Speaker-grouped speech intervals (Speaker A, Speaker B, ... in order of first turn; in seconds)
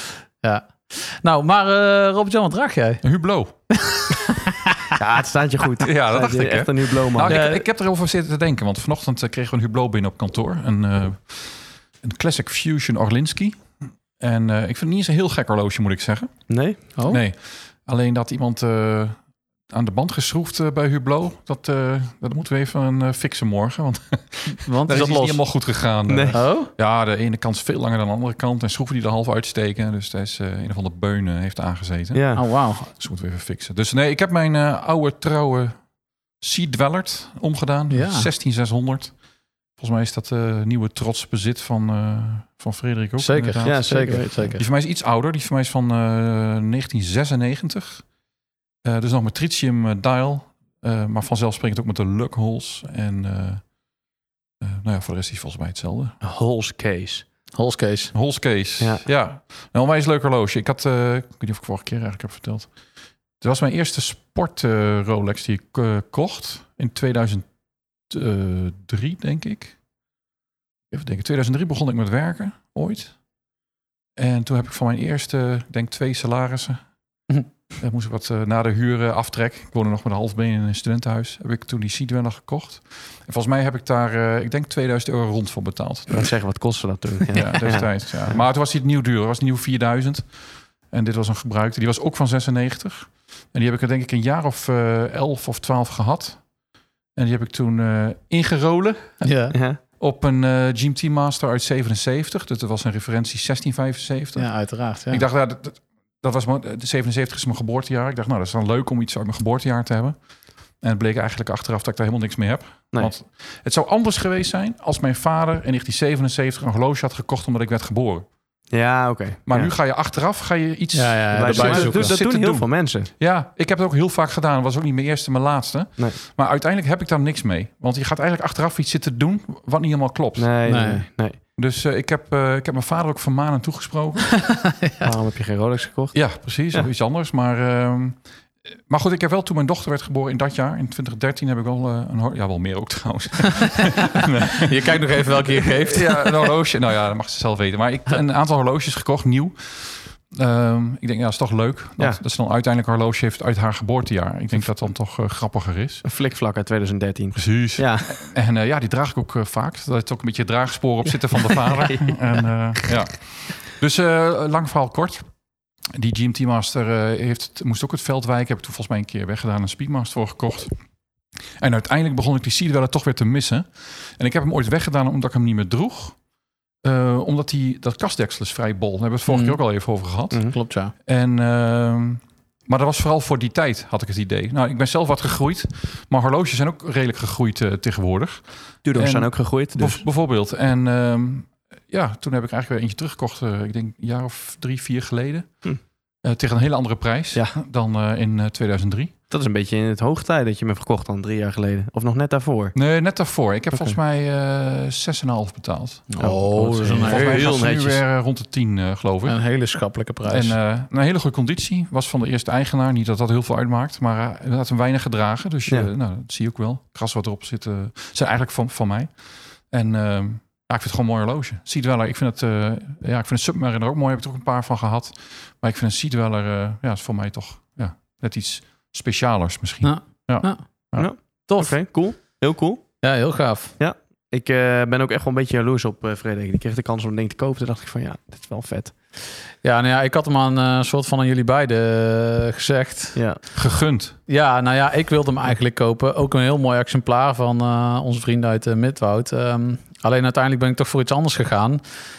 Speaker A: 0.4-3.0, 3.7-4.9, 7.3-7.6, 17.0-17.2, 24.5-25.4, 26.3-26.7, 32.3-32.9, 37.9-38.3, 43.2-44.6, 57.5-58.1, 99.2-99.6, 104.4-105.2, 120.9-122.1, 130.7-131.1, 134.4-135.1, 144.6-146.5, 179.3-179.6, 180.5-180.9, 206.1-207.5, 209.2-210.6, 229.8-230.6, 231.4-231.8, 233.0-233.8, 239.6-243.5, 244.3-251.8
Speaker B: 3.0-3.5, 5.8-16.4, 17.0-19.2, 19.7-35.8, 36.4-39.1, 39.8-44.1, 44.6-48.0, 48.8-53.6, 54.6-56.2, 58.1-62.7, 63.4-67.5, 68.1-69.8, 70.9-73.2, 74.2-76.8, 77.7-86.3, 87.3-90.3, 90.9-96.4, 97.1-99.3, 100.0-110.2, 110.8-118.3, 119.5-130.5, 131.6-134.6, 136.1-156.0, 157.3-165.3, 165.9-170.8, 171.6-176.2, 176.8-180.5, 181.0-195.6, 196.2-199.1, 202.8-206.2, 206.9-209.4, 210.2-219.1, 219.7-231.1, 243.6-244.1
Speaker C: 5.0-7.3, 16.5-16.8, 26.1-26.4, 32.1-32.4, 43.6-44.5, 56.2-57.2, 86.1-88.4, 99.5-99.8, 118.7-119.7, 121.3-123.1, 130.4-131.4, 135.0-136.8, 156.1-158.2, 161.4-162.4, 188.8-190.0, 199.3-202.8, 206.2-208.0, 230.9-232.9, 233.8-238.9, 243.1-243.4